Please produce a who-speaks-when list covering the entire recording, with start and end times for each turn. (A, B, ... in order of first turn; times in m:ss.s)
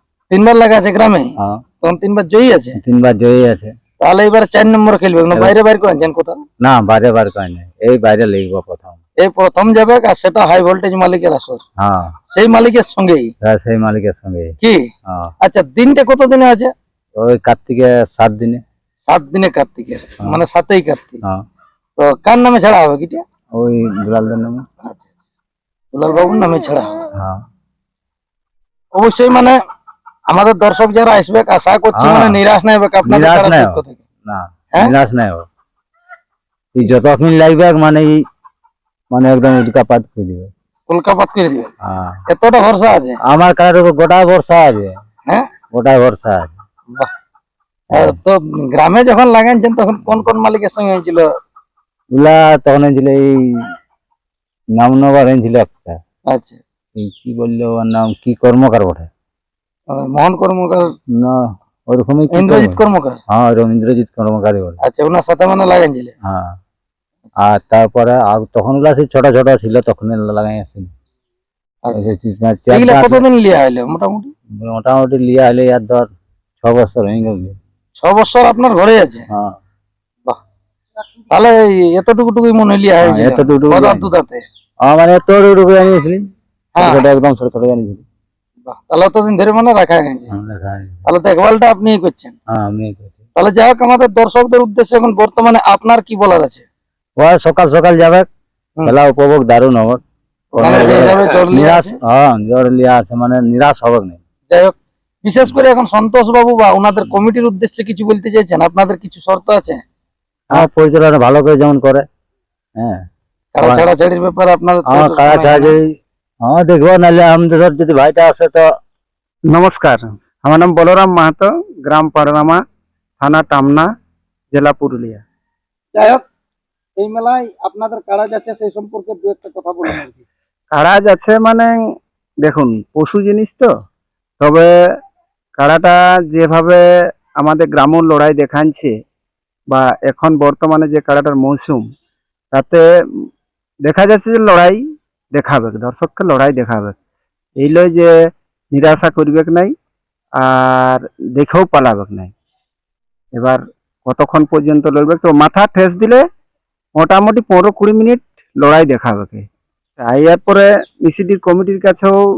0:00.3-0:02.8 A
0:02.8-0:03.7 B
0:04.0-0:06.4 A
0:06.6-0:09.0 B
0:09.2-0:11.6 A
0:11.8-0:12.2 B
0:12.3-0:13.3 A
0:13.4-0:15.3 B
0:15.4-0:16.7 A
0:17.2-0:18.6 B
0:19.1-0:21.2 A
0:22.0-0:23.2 A
0:23.5-0:24.7 B
0:25.9-0:27.0 A
0:27.2-0:27.4 B
0:28.9-0:29.6 A
0:30.3-0:34.0 A
0:32.0-0:32.4 B
0:33.0-0:35.5 B
0:36.7-0:38.2 B
0:39.1-0:40.5 B
0:40.9-0:41.7 A
0:41.8-0:42.2 B
0:42.3-0:43.2 A
0:43.3-0:44.9 B
0:45.7-0:46.6 B
0:47.9-0:48.2 B
0:47.9-0:51.3 A
0:52.1-0:53.6 B
0:54.8-0:56.0 B
0:56.3-0:56.6 A
0:57.0-0:59.1 B
0:59.9-1:00.9 A
1:01.1-1:04.8 B
1:02.3-1:03.2 A
1:04.8-1:06.1 A
1:06.2-1:06.6 B
1:07.4-1:10.9 B
1:11.8-1:12.1 A
1:11.9-1:13.2 B
1:12.7-1:14.3 A
1:14.6-1:16.1 B
1:16.6-1:17.6 B
1:18.0-1:19.2 A
1:19.3-1:19.6 B
1:21.3-1:24.4 A
1:23.0-1:24.1 B
1:24.8-1:28.0 B
1:26.8-1:27.0 A
1:28.6-1:30.3 A
1:30.3-1:31.0 B
1:31.1-1:32.3 A
1:32.5-1:33.2 B
1:33.4-1:36.6 A
1:37.2-1:38.3 B
1:38.9-1:40.0 B
1:40.6-1:44.2 B
1:40.6-1:42.0 A
1:44.5-1:49.8 A
1:50.5-1:52.1 B
1:52.8-1:53.1 B
1:53.6-1:55.7 A
1:53.6-1:53.9 B
1:54.9-1:55.8 B
1:56.4-1:58.7 B
1:59.5-2:02.6 C
2:03.2-2:03.9 C
2:04.5-2:05.2 C
2:05.9-2:06.2 A
2:07.0-2:10.2 A
2:10.7-2:11.7 C
2:12.4-2:13.7 C
2:14.4-2:14.7 C
2:15.6-2:16.8 C
2:17.4-2:19.0 C
2:19.7-2:21.9 C
2:22.5-2:22.8 C
2:23.8-2:24.8 C
2:25.3-2:26.9 C
2:27.6-2:28.1 C
2:28.7-2:29.7 C
2:30.4-2:32.3 C
2:33.3-2:36.2 C
2:37.0-2:39.5 C
2:40.0-2:42.2 C